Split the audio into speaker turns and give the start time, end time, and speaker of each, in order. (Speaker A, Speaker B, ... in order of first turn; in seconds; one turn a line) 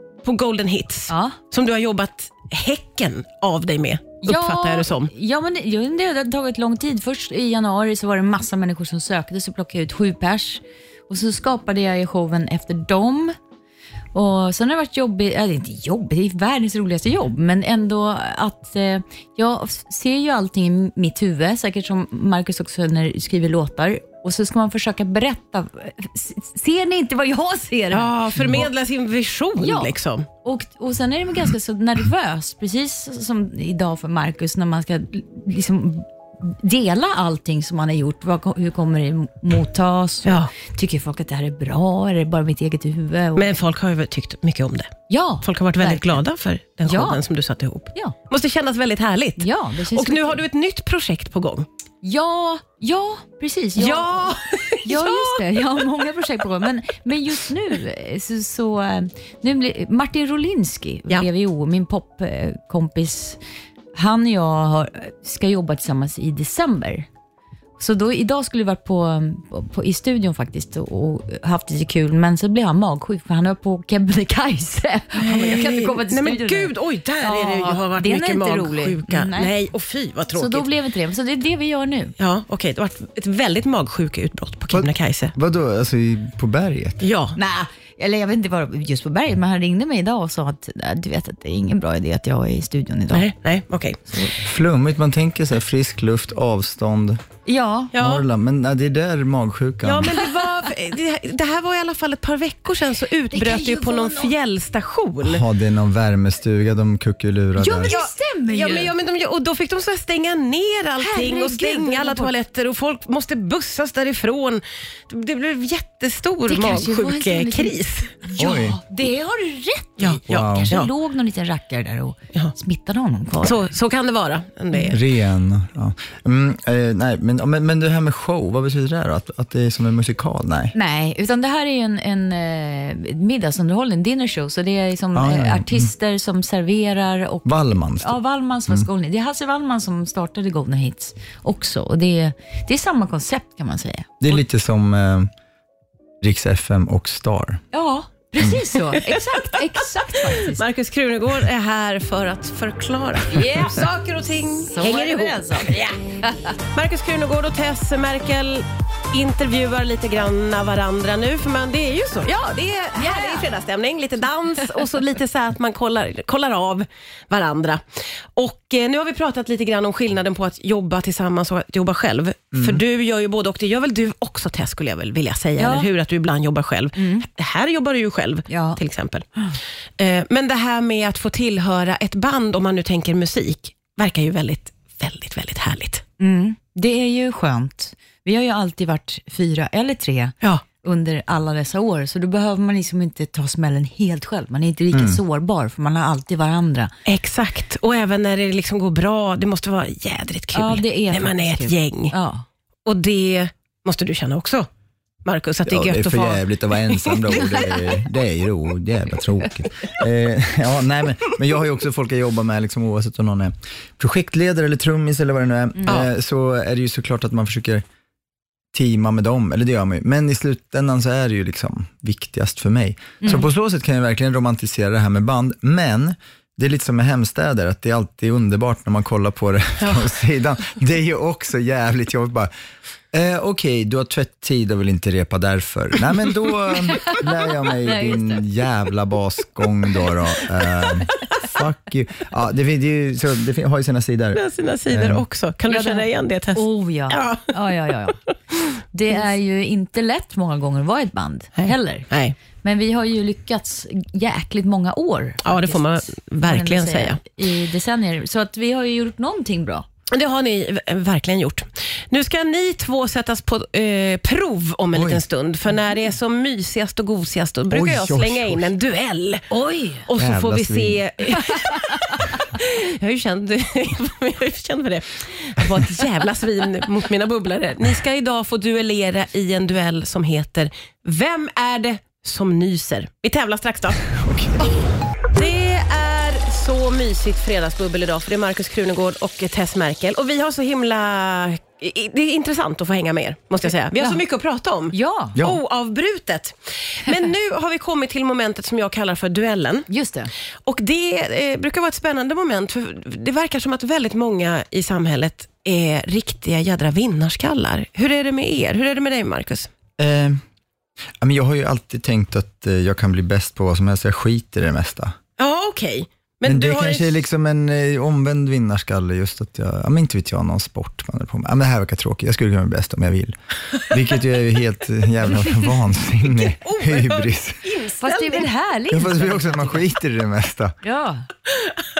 Speaker A: 0.2-5.1
Speaker B: 1.1-1.4
Speaker B: 4.2-13.3
Speaker B: 14.1-28.6
Speaker A: 27.9-30.3
Speaker B: 29.6-29.9
Speaker B: 30.4-43.5
Speaker A: 40.2-40.5
Speaker A: 43.4-51.7
Speaker B: 45.1-46.2
Speaker B: 46.9-47.2
Speaker B: 49.4-50.4
Speaker B: 52.0-63.4
Speaker A: 53.8-55.4
Speaker B: 63.9-67.1
Speaker B: 67.8-79.5
Speaker A: 75.2-80.7
Speaker B: 80.3-82.1
Speaker A: 82.2-85.3
Speaker C: 84.7-87.0
Speaker A: 87.0-87.4
Speaker B: 87.3-93.3
Speaker A: 93.1-94.3
Speaker C: 94.3-97.2
Speaker B: 97.5-97.9
Speaker A: 97.9-98.2
Speaker C: 97.9-100.2
Speaker A: 99.8-105.4
Speaker B: 103.3-104.3
Speaker C: 105.2-107.9
Speaker B: 107.6-108.9
Speaker A: 107.8-118.2
Speaker B: 111.0-112.3
Speaker B: 116.5-123.7
Speaker C: 118.4-118.8
Speaker A: 120.0-120.9
Speaker C: 120.3-120.8
Speaker A: 123.4-125.0
Speaker C: 124.9-130.7
Speaker B: 130.7-137.5
Speaker C: 135.1-135.9
Speaker C: 137.4-138.2
Speaker B: 138.0-144.4
Speaker C: 144.2-145.3
Speaker C: 146.2-147.6
Speaker B: 147.7-150.6
Speaker A: 148.9-149.4
Speaker A: 150.3-156.0
Speaker B: 153.3-154.0
Speaker B: 154.7-156.5
Speaker A: 156.7-179.2
Speaker B: 162.4-163.5
Speaker C: 172.5-172.8
Speaker B: 175.6-175.9
Speaker B: 176.9-177.2
Speaker B: 178.5-178.8
Speaker A: 180.0-186.0
Speaker B: 186.2-196.9
Speaker C: 194.9-195.2
Speaker A: 197.1-202.1
Speaker B: 200.5-202.4
Speaker A: 202.8-204.7
Speaker A: 205.2-207.6
Speaker C: 205.7-217.8
Speaker B: 207.5-207.9
Speaker C: 218.7-232.5
Speaker B: 223.2-223.5
Speaker A: 229.8-230.1
Speaker C: 233.1-245.2
Speaker B: 236.9-238.5
Speaker A: 244.3-247.5
Speaker B: 245.7-248.2
Speaker B: 248.9-252.1
Speaker A: 251.6-252.3
Speaker B: 252.6-259.9
Speaker A: 255.4-257.2
Speaker A: 260.1-269.5
Speaker C: 264.9-265.2
Speaker C: 267.7-268.7
Speaker B: 269.5-270.1
Speaker A: 270.0-284.1
Speaker C: 270.2-271.0
Speaker C: 284.1-284.6
Speaker A: 285.3-299.9
Speaker B: 293.9-294.2
Speaker B: 294.9-295.4
Speaker C: 295.3-295.6
Speaker B: 299.9-300.3
Speaker A: 300.6-309.7
Speaker C: 310.0-310.4
Speaker C: 311.2-315.1
Speaker A: 315.4-317.2
Speaker C: 316.4-327.6
Speaker A: 326.2-328.5
Speaker B: 328.0-329.9
Speaker C: 328.9-330.8
Speaker B: 330.8-331.3